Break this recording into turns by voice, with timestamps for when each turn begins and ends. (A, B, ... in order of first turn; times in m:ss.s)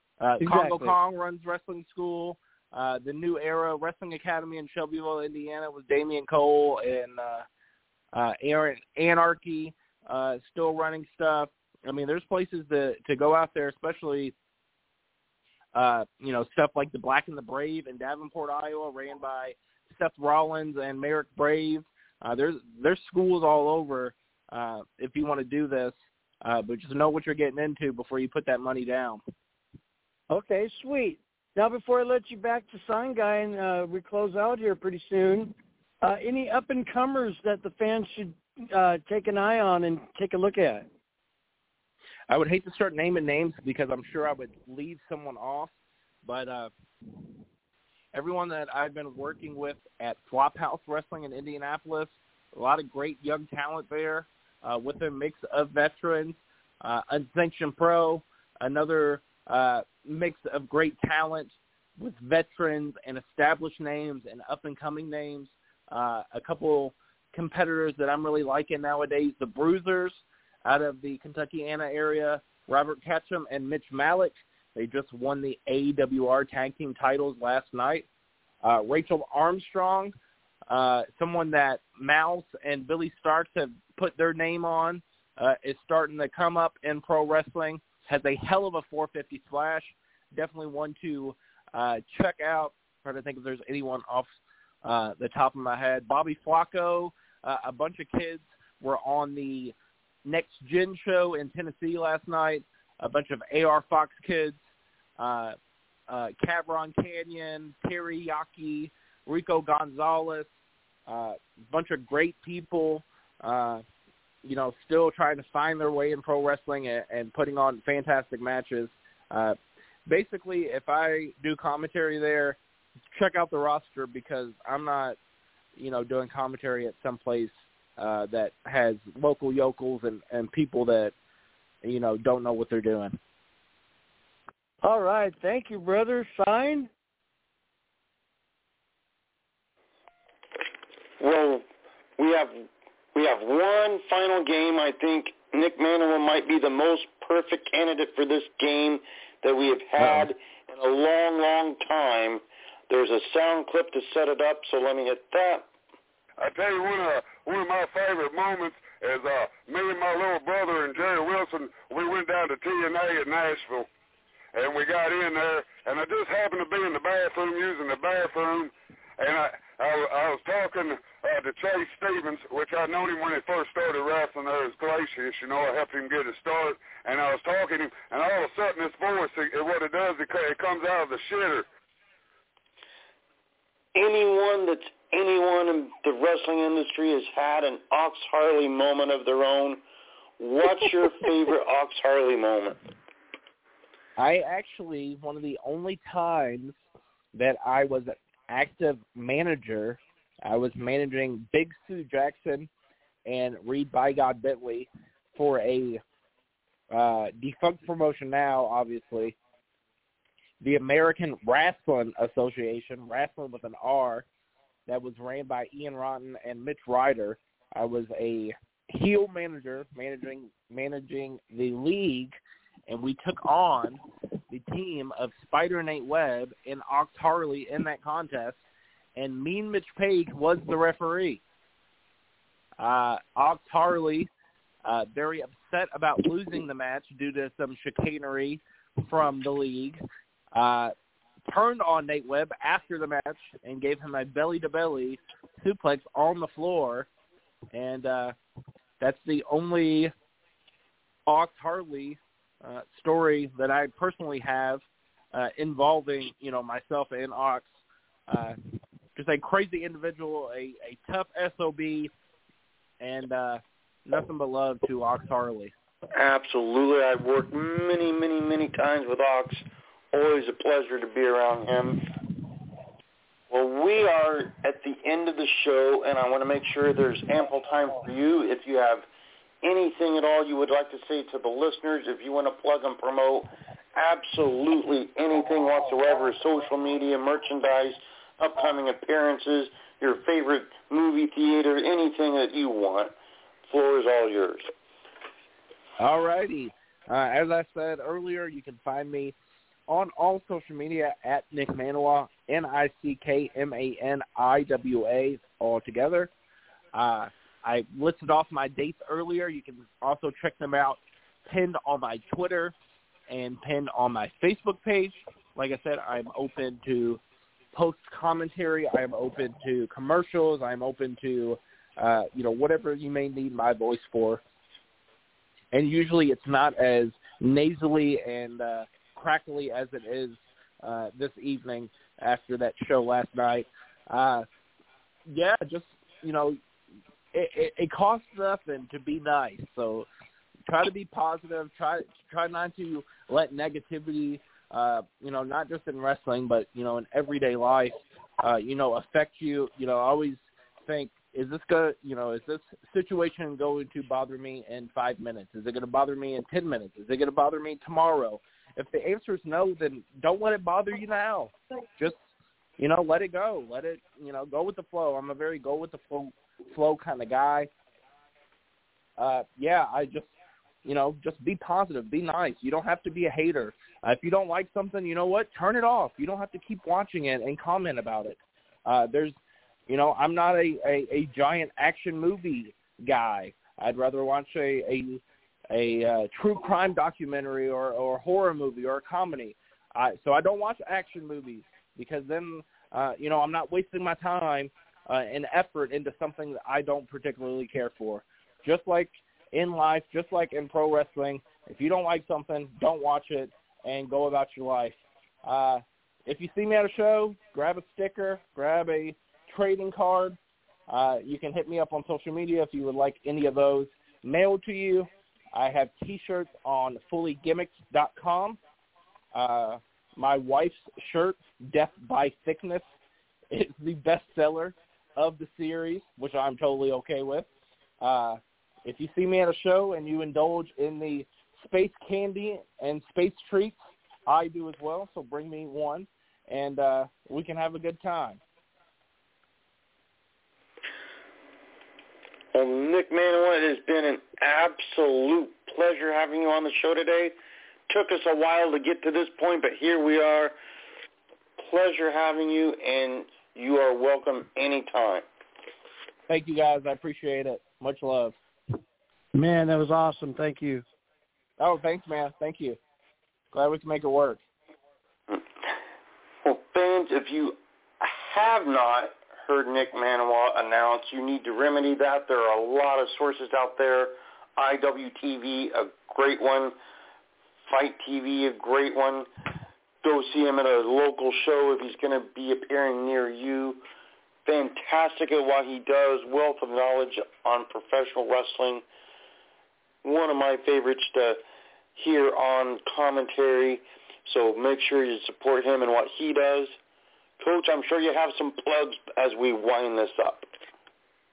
0:00.2-0:07.5 A
0:00.4-0:00.9 B
0:08.1-0:14.4 A
0:15.8-0:29.2 A
0:30.3-0:40.9 B
0:42.3-0:45.7 A
0:46.2-0:46.7 A
0:48.1-1:18.1 A
1:18.6-1:20.1 A
1:20.7-1:34.3 A
1:34.8-1:44.6 A
1:45.2-1:45.6 A
1:46.1-1:50.5 A
1:51.1-1:53.8 A
1:54.4-2:02.6 A
2:03.1-2:05.2 A
2:05.8-2:11.1 A
2:11.8-2:13.2 A
2:14.8-2:16.9 B
2:21.2-2:21.6 C
2:22.2-2:35.7 C
2:30.0-2:30.3 A
2:36.4-2:43.9 D
2:44.5-3:01.7 D
3:04.0-3:09.8 C
3:10.4-3:12.8 C
3:14.2-3:16.8 A
3:17.3-3:22.7 A
3:23.3-3:26.0 A
3:26.9-3:29.4 A
3:30.6-3:34.3 A
3:34.9-3:42.3 A
3:42.9-3:44.0 A
3:44.5-3:48.6 A
3:49.2-3:51.4 A
3:52.8-3:54.3 A
3:54.8-4:00.0 A
4:00.5-4:00.9 A
4:01.5-4:07.1 A
4:07.7-4:08.4 A
4:09.0-4:10.1 A
4:11.3-4:17.7 A
4:18.3-4:18.6 A
4:19.2-4:22.1 A
4:23.0-4:25.7 A
4:26.2-4:32.0 C
4:33.5-4:39.0 C
4:39.6-4:53.1 C
4:53.7-4:54.7 C
4:56.0-4:59.4 A
4:59.9-5:06.3 A
5:06.9-5:12.8 A
5:13.3-5:17.2 A
5:17.7-5:24.4 A
5:25.7-5:34.5 A
5:35.3-5:36.6 A
5:37.3-5:40.1 A
5:40.7-6:02.2 A
6:02.8-6:07.7 A
6:09.2-6:10.3 A
6:10.8-6:19.4 A
6:19.9-6:50.4 A
6:50.9-6:58.6 A
6:59.3-7:02.9 A
7:03.5-7:07.5 A
7:08.0-7:18.4 A
7:22.5-7:27.3 C
7:27.9-7:30.5 C
7:31.6-7:35.2 C
7:36.3-7:38.4 A
7:39.3-7:40.8 B
7:41.6-7:42.8 A
7:43.5-7:44.4 A
7:46.4-7:56.7 C
7:57.7-7:59.3 C
8:00.0-8:03.8 C
8:04.5-8:08.8 C
8:10.0-8:11.4 C
8:12.0-8:16.7 C
8:17.4-8:20.4 C